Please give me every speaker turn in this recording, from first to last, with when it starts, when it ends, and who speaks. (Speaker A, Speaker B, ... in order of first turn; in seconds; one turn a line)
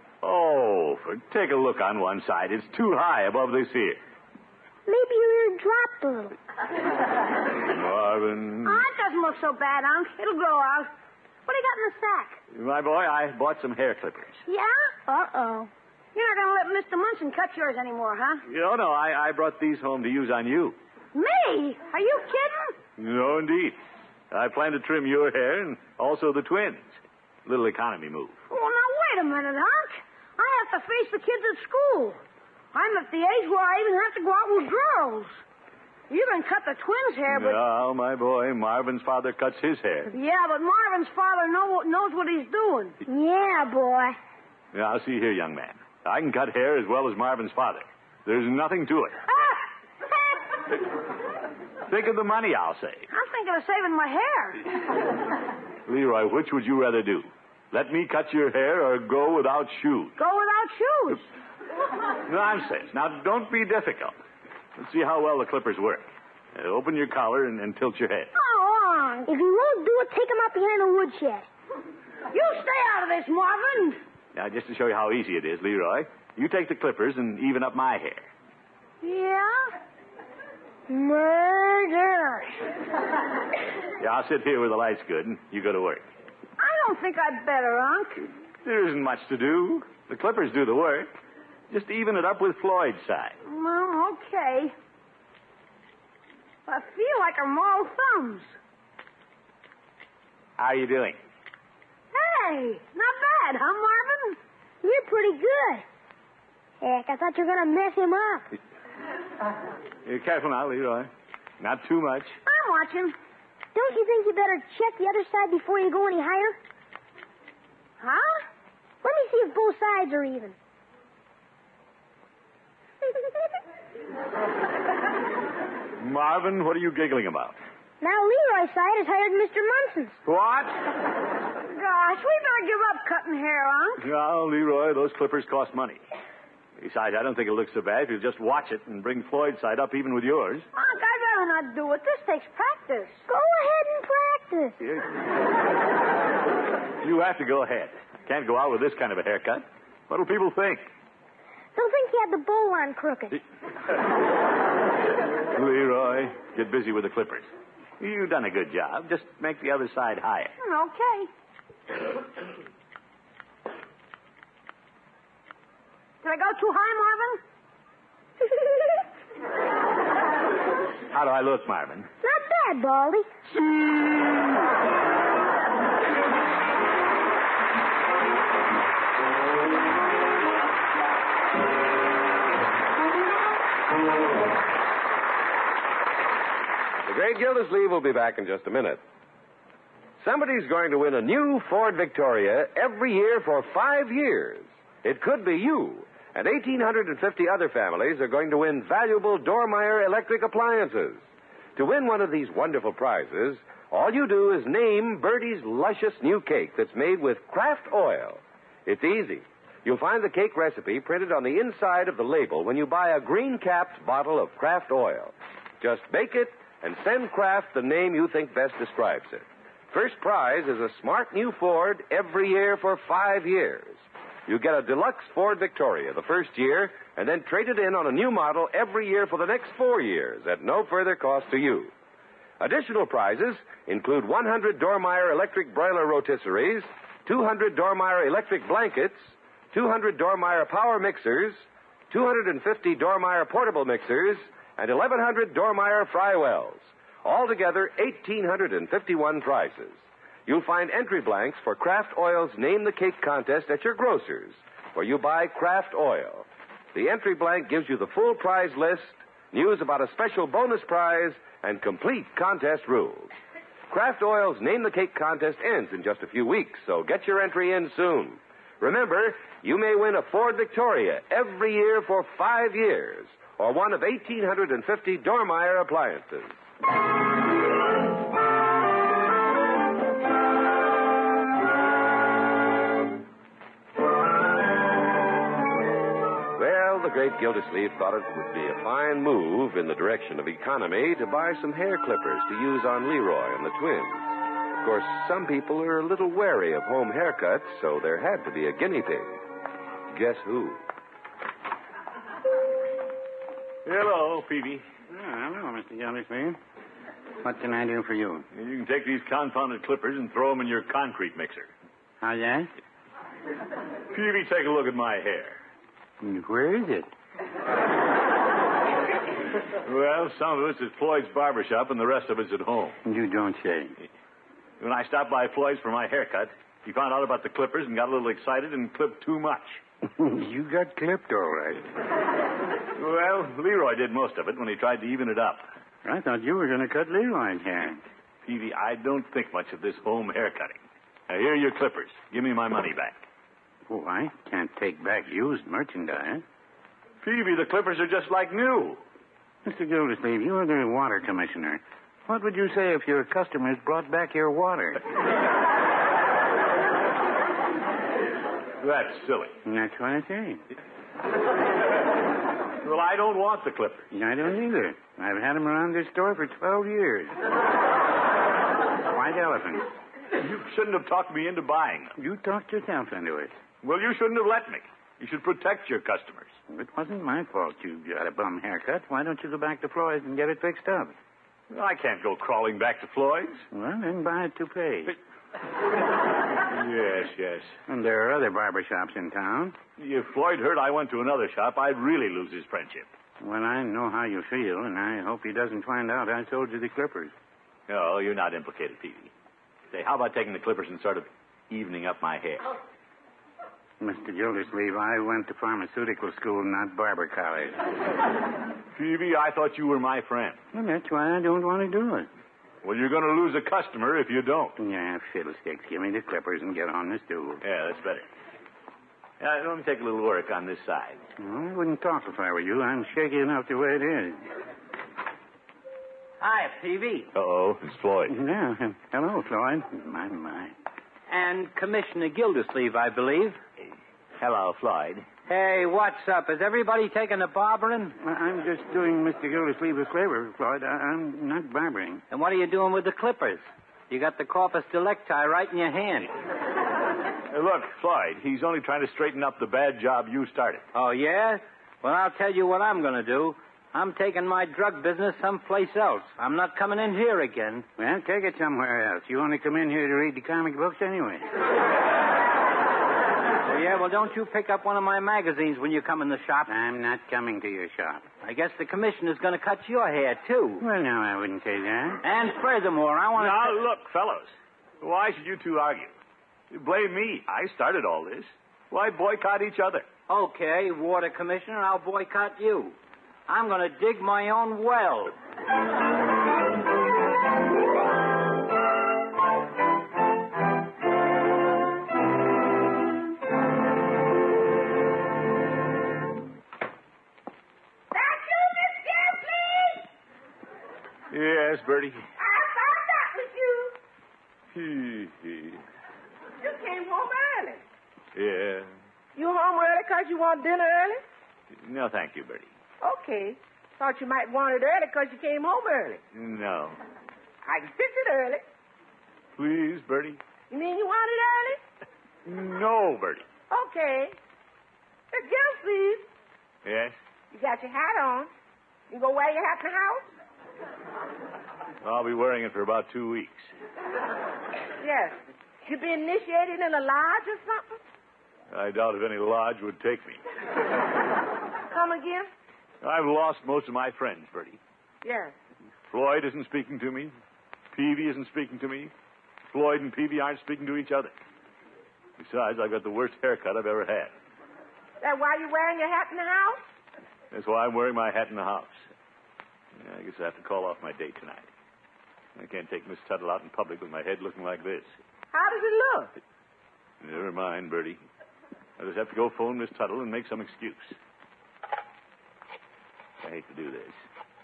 Speaker A: 0.2-4.0
Speaker B: 4.9-6.3
Speaker A: 7.6-8.9
Speaker C: 8.6-10.9
Speaker C: 11.4-12.4
Speaker A: 12.5-14.4
Speaker B: 15.0-15.7
Speaker C: 16.1-18.4
Speaker A: 18.5-20.8
Speaker C: 21.1-22.8
Speaker A: 23.0-23.8
Speaker A: 24.3-28.4
Speaker C: 28.5-32.2
Speaker C: 32.7-35.4
Speaker C: 36.1-37.6
Speaker A: 37.3-40.1
Speaker C: 40.1-43.0
Speaker B: 43.0-44.2
Speaker A: 44.7-49.2
Speaker A: 51.9-53.1
Speaker C: 53.1-54.6
Speaker A: 55.9-60.1
Speaker C: 60.2-61.2
Speaker A: 62.2-64.2
Speaker A: 64.8-68.3
Speaker C: 68.5-69.0
Speaker B: 68.5-71.5
Speaker C: 72.3-74.0
Speaker A: 74.3-78.3
Speaker C: 79.0-79.7
Speaker B: 80.9-82.5
Speaker A: 84.0-86.0
Speaker C: 86.6-88.3
Speaker A: 88.6-91.1
Speaker A: 91.7-93.4
Speaker C: 93.4-94.7
Speaker C: 96.7-98.5
Speaker A: 100.6-101.2
Speaker C: 102.1-104.4
Speaker B: 104.8-105.8
Speaker B: 106.8-108.5
Speaker A: 110.0-112.4
Speaker C: 112.5-113.1
Speaker B: 113.7-116.6
Speaker C: 118.0-118.4
Speaker B: 119.0-120.5
Speaker A: 126.0-127.6
Speaker B: 128.0-130.2
Speaker A: 130.2-130.8
Speaker C: 131.7-134.1
Speaker A: 134.0-136.0
Speaker A: 136.8-140.7
Speaker C: 140.7-143.2
Speaker B: 143.3-144.8
Speaker A: 144.8-145.1
Speaker A: 147.0-150.8
Speaker B: 151.7-153.4
Speaker A: 155.5-160.5
Speaker C: 160.6-161.3
Speaker C: 166.2-167.4
Speaker A: 171.1-172.1
Speaker B: 172.2-173.3
Speaker D: 187.1-189.0
Speaker D: 190.2-201.2
Speaker D: 201.8-231.9
Speaker D: 232.6-263.3
Speaker D: 263.9-276.6
Speaker D: 286.6-299.4
Speaker D: 300.1-300.8
Speaker A: 303.8-304.8
Speaker E: 305.1-306.6
Speaker E: 307.4-308.4
Speaker A: 308.5-311.7
Speaker E: 312.2-312.7
Speaker A: 314.1-315.6
Speaker E: 316.2-317.1
Speaker A: 319.8-323.0
Speaker E: 323.0-324.0
Speaker A: 324.8-329.8
Speaker E: 330.1-331.9
Speaker A: 332.9-335.7
Speaker E: 336.0-338.0
Speaker A: 338.4-343.2
Speaker E: 343.9-346.4
Speaker A: 347.2-349.0
Speaker E: 349.6-355.0
Speaker A: 358.8-359.5
Speaker E: 359.6-360.6
Speaker A: 362.8-364.1
Speaker E: 364.1-367.4
Speaker E: 369.1-369.9
Speaker A: 370.3-372.1
Speaker E: 372.2-373.5
Speaker A: 373.8-376.5
Speaker E: 376.7-381.1
Speaker A: 381.7-383.6
Speaker E: 383.7-385.1
Speaker A: 386.6-387.8
Speaker E: 387.9-389.8
Speaker A: 390.0-393.1
Speaker E: 393.4-397.3
Speaker A: 397.9-399.3
Speaker A: 399.9-402.8
Speaker E: 404.0-407.8
Speaker A: 408.9-410.6
Speaker E: 410.7-412.3
Speaker A: 412.8-414.8
Speaker E: 414.8-417.6
Speaker A: 417.6-418.3
Speaker A: 419.4-421.2
Speaker E: 421.4-424.4
Speaker F: 426.4-427.3
Speaker A: 427.3-428.3
Speaker E: 428.3-430.7
Speaker F: 431.3-433.6
Speaker A: 434.4-435.3
Speaker F: 435.5-438.2
Speaker E: 438.2-442.2
Speaker F: 442.3-446.3
Speaker A: 447.5-450.9
Speaker F: 450.9-457.9
Speaker E: 458.0-461.5
Speaker F: 463.6-466.7
Speaker E: 466.7-468.3
Speaker F: 468.4-470.8
Speaker E: 470.8-472.2
Speaker F: 472.2-473.8
Speaker A: 473.4-476.1
Speaker A: 476.7-480.1
Speaker F: 480.3-483.0
Speaker F: 483.5-485.3
Speaker G: 498.1-500.1
Speaker A: 501.3-502.2
Speaker G: 502.4-503.9
Speaker A: 504.7-505.8
Speaker G: 506.6-507.8
Speaker A: 508.3-508.9
Speaker G: 509.3-511.2
Speaker A: 511.8-512.7
Speaker G: 513.0-516.2
Speaker A: 516.3-517.0
Speaker G: 517.6-518.6
Speaker A: 519.6-520.4
Speaker G: 520.7-521.8
Speaker A: 522.4-523.5
Speaker G: 523.7-524.4
Speaker G: 525.3-526.3
Speaker A: 526.8-527.1
Speaker G: 527.5-528.5
Speaker G: 529.1-530.3
Speaker A: 532.0-533.7
Speaker G: 535.0-538.0
Speaker A: 538.7-540.4
Speaker G: 541.9-542.5
Speaker A: 543.0-544.8
Speaker G: 545.2-545.5
Speaker A: 546.1-547.3
Speaker A: 547.9-549.1
Speaker A: 549.7-551.4
Speaker A: 552.4-554.3
Speaker G: 555.2-556.8
Speaker A: 557.5-559.0
Speaker A: 560.0-561.7
Speaker A: 562.5-565.1
Speaker G: 565.5-566.3
Speaker A: 567.2-568.2
Speaker A: 569.0-571.1
Speaker A: 573.4-574.2